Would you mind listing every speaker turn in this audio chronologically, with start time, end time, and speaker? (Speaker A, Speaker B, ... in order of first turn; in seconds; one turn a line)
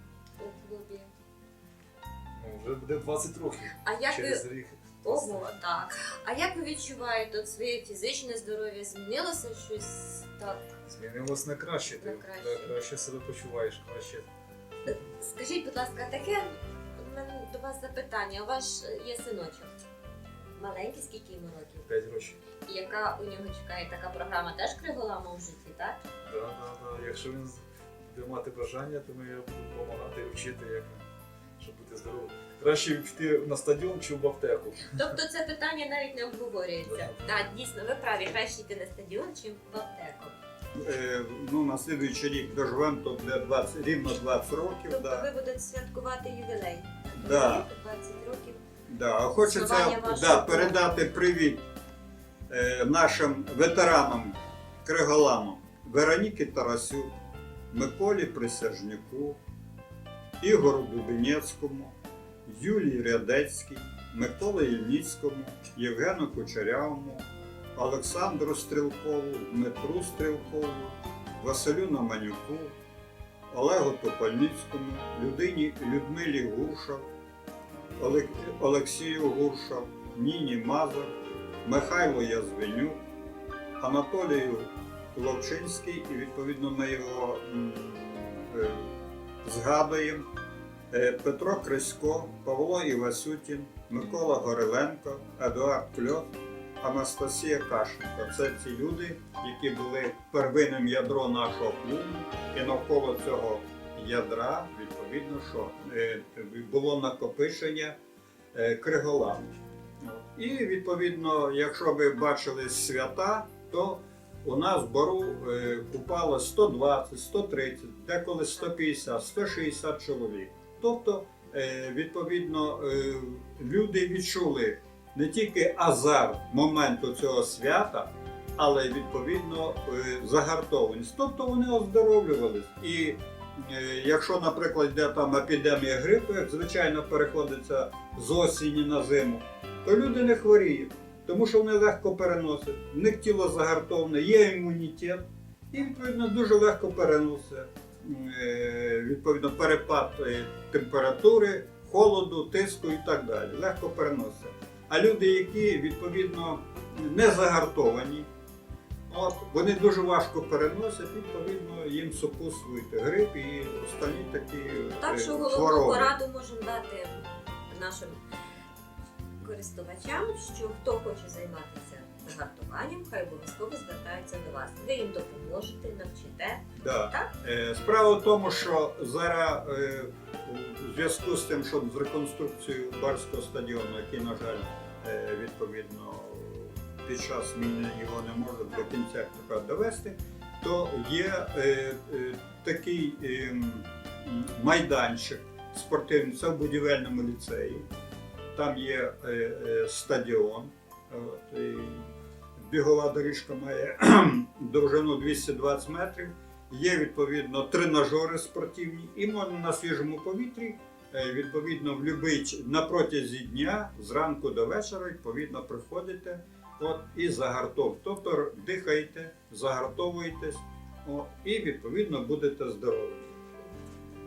Speaker A: 0.4-1.1
Speaker B: 2.4-5.5
Speaker A: 3.8-4.4
Speaker A: 5.0-10.6
Speaker B: 10.9-14.3
Speaker A: 12.0-12.8
Speaker A: 14.9-19.7
Speaker A: 20.6-21.9
Speaker B: 21.9-22.4
Speaker A: 22.6-26.0
Speaker B: 26.2-31.0
Speaker B: 31.6-35.0
Speaker A: 34.9-40.4
Speaker B: 36.9-37.1
Speaker C: 40.8-45.3
Speaker A: 44.9-48.6
Speaker C: 47.1-47.7
Speaker C: 48.9-51.6
Speaker A: 49.4-51.0
Speaker C: 52.5-57.1
Speaker C: 57.7-59.4
Speaker C: 60.4-61.9
Speaker C: 62.5-72.8
Speaker C: 73.5-77.1
Speaker C: 78.0-81.1
Speaker C: 81.7-83.0
Speaker C: 83.8-90.2
Speaker C: 90.9-96.3
Speaker C: 96.8-108.0
Speaker C: 108.5-158.3
Speaker C: 159.1-166.1
Speaker A: 165.0-168.2
Speaker A: 169.4-177.3
Speaker C: 176.8-197.9
Speaker C: 198.5-223.3